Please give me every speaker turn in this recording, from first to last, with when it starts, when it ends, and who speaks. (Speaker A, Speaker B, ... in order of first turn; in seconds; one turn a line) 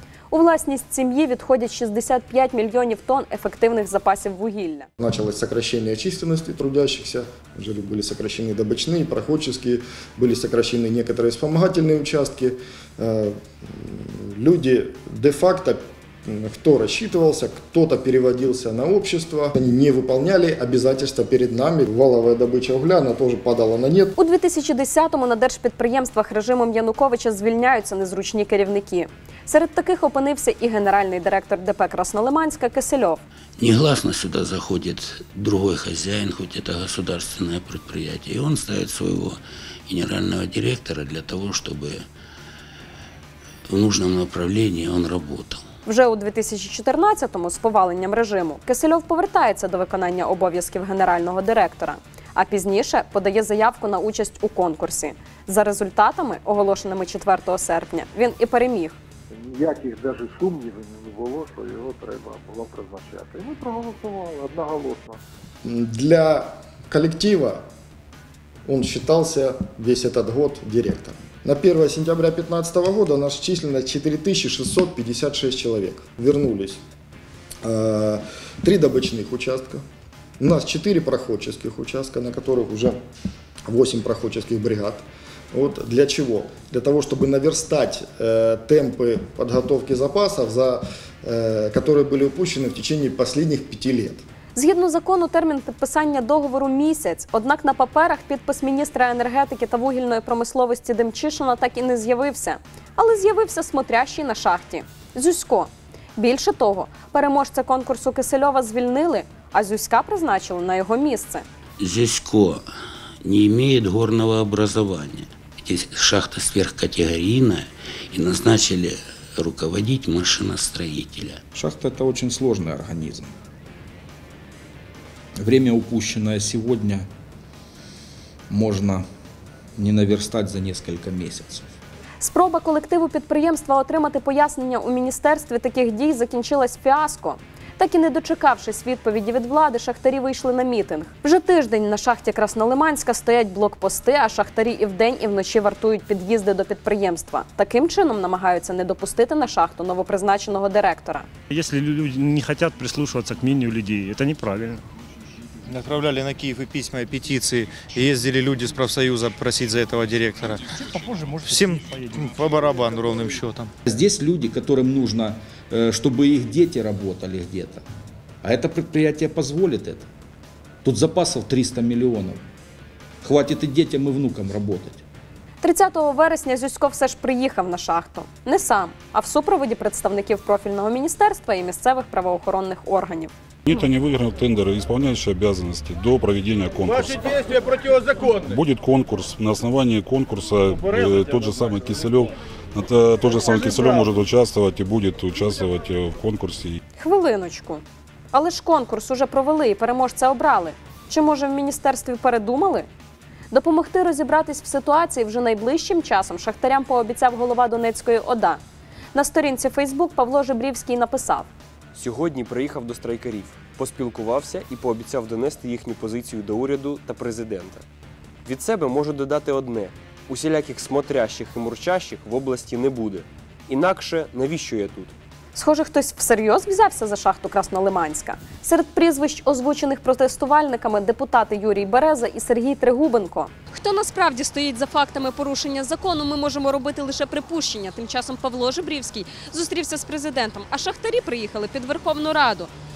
Speaker A: 0.3-4.9
Speaker B: 5.0-24.1
Speaker A: 24.2-33.2
Speaker C: 33.6-42.0
Speaker C: 43.7-45.6
Speaker A: 45.9-59.0
Speaker D: 59.4-65.2
Speaker B: 65.7-67.6
Speaker B: 68.7-76.8
Speaker B: 77.6-79.8
Speaker B: 80.4-83.0
Speaker B: 83.7-94.2
Speaker A: 94.5-111.5
Speaker C: 111.8-112.6
Speaker C: 113.2-121.4
Speaker E: 121.5-123.3
Speaker E: 125.4-127.1
Speaker E: 128.5-129.0
Speaker E: 129.8-131.7
Speaker A: 132.2-151.3
Speaker F: 151.5-154.8
Speaker G: 155.7-160.7
Speaker F: 160.8-163.4
Speaker G: 161.4-163.7
Speaker E: 163.9-167.8
Speaker E: 168.4-170.1
Speaker E: 170.8-172.4
Speaker E: 173.2-175.0
Speaker A: 175.6-183.3
Speaker H: 183.7-196.8
Speaker A: 197.0-197.8
Speaker A: 198.3-202.9
Speaker A: 203.5-208.6
Speaker A: 209.1-211.5
Speaker I: 211.9-217.8
Speaker I: 218.4-225.1
Speaker A: 225.6-242.7